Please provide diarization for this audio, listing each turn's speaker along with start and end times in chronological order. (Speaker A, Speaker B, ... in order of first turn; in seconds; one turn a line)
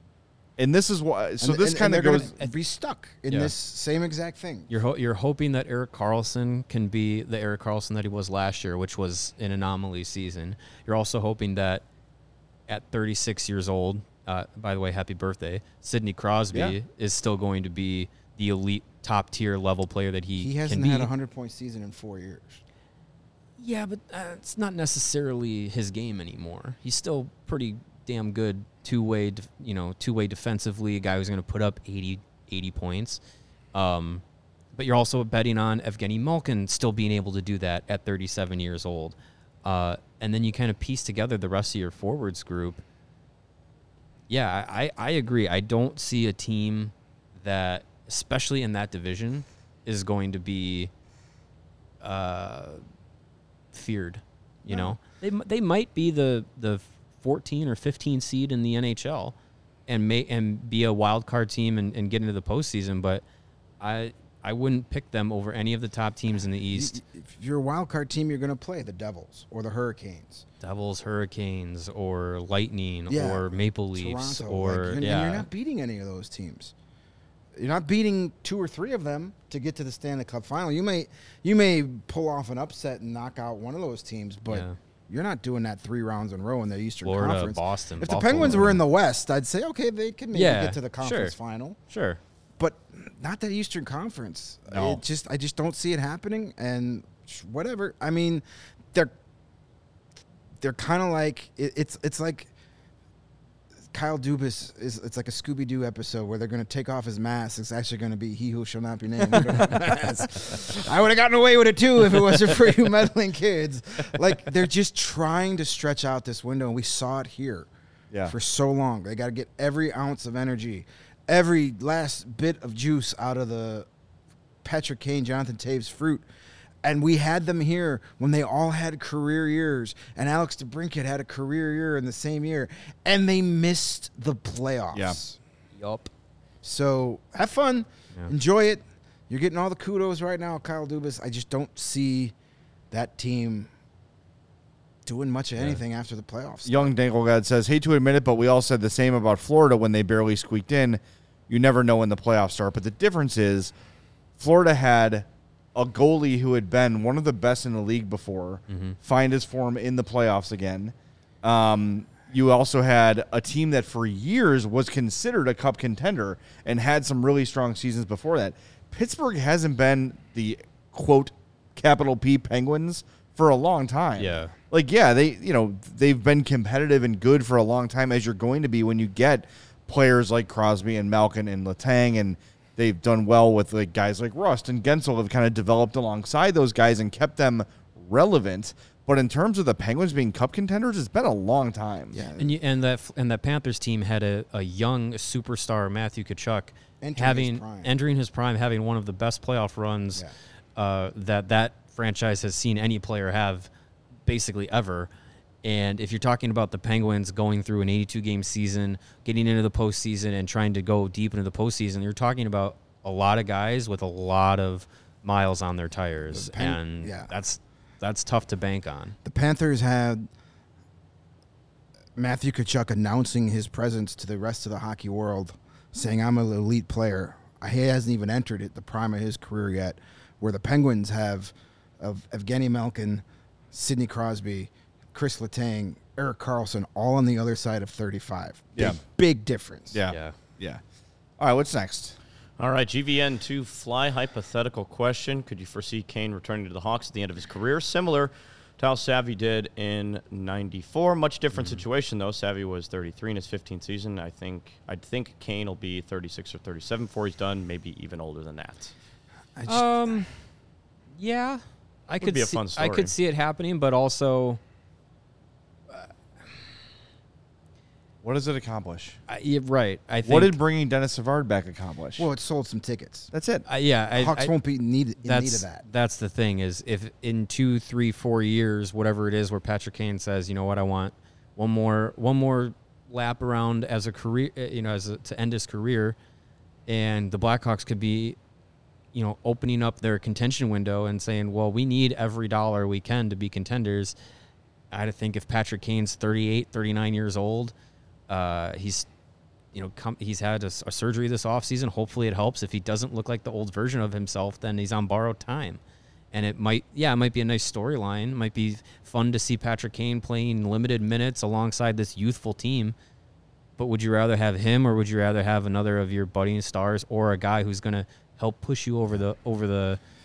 Speaker A: 0.6-2.5
Speaker B: 1.4-4.7
Speaker C: 3.3-3.5
Speaker C: 4.7-11.8
Speaker C: 12.7-21.1
Speaker B: 20.4-22.6
Speaker C: 23.6-33.2
Speaker C: 33.7-34.2
Speaker C: 34.7-42.8
Speaker C: 44.3-50.9
Speaker C: 52.0-52.8
Speaker C: 53.7-59.3
Speaker B: 54.7-55.0
Speaker C: 59.9-63.2
Speaker C: 63.8-67.0
Speaker B: 66.7-70.4
Speaker C: 70.6-75.5
Speaker B: 73.1-76.7
Speaker B: 77.5-91.8
Speaker C: 84.5-84.8
Speaker C: 87.0-88.8
Speaker C: 90.3-91.3
Speaker C: 91.9-92.2
Speaker B: 92.6-99.1
Speaker A: 94.7-95.0
Speaker B: 100.6-102.5
Speaker B: 103.9-117.7
Speaker A: 118.1-118.3
Speaker B: 118.2-123.9
Speaker B: 124.6-126.2
Speaker B: 126.8-135.4
Speaker A: 134.9-135.2
Speaker C: 135.8-136.1
Speaker B: 136.6-142.3
Speaker B: 142.9-143.7
Speaker B: 145.0-146.9
Speaker A: 146.7-153.7
Speaker A: 154.4-192.2
Speaker C: 158.7-159.0
Speaker C: 174.2-174.5
Speaker B: 192.1-192.5
Speaker C: 192.4-200.2
Speaker B: 197.0-197.9
Speaker C: 200.8-203.7
Speaker C: 204.2-205.1
Speaker C: 205.6-219.2
Speaker B: 216.3-217.3
Speaker B: 219.2-220.3
Speaker B: 222.2-240.0
Speaker A: 239.9-240.8
Speaker C: 240.1-240.3
Speaker A: 241.4-242.2
Speaker D: 242.6-258.9
Speaker B: 259.6-260.2
Speaker C: 259.7-260.3
Speaker C: 261.2-264.6
Speaker D: 262.2-263.1
Speaker A: 268.2-269.2
Speaker C: 269.3-270.6
Speaker A: 270.2-272.3
Speaker B: 272.2-273.3
Speaker A: 273.3-273.6
Speaker C: 273.7-274.5
Speaker B: 274.1-275.8
Speaker C: 275.2-286.1
Speaker C: 286.9-288.4
Speaker C: 289.1-294.1
Speaker C: 294.9-297.7
Speaker C: 298.3-299.1
Speaker C: 299.7-305.8
Speaker C: 306.3-312.9
Speaker C: 313.8-320.0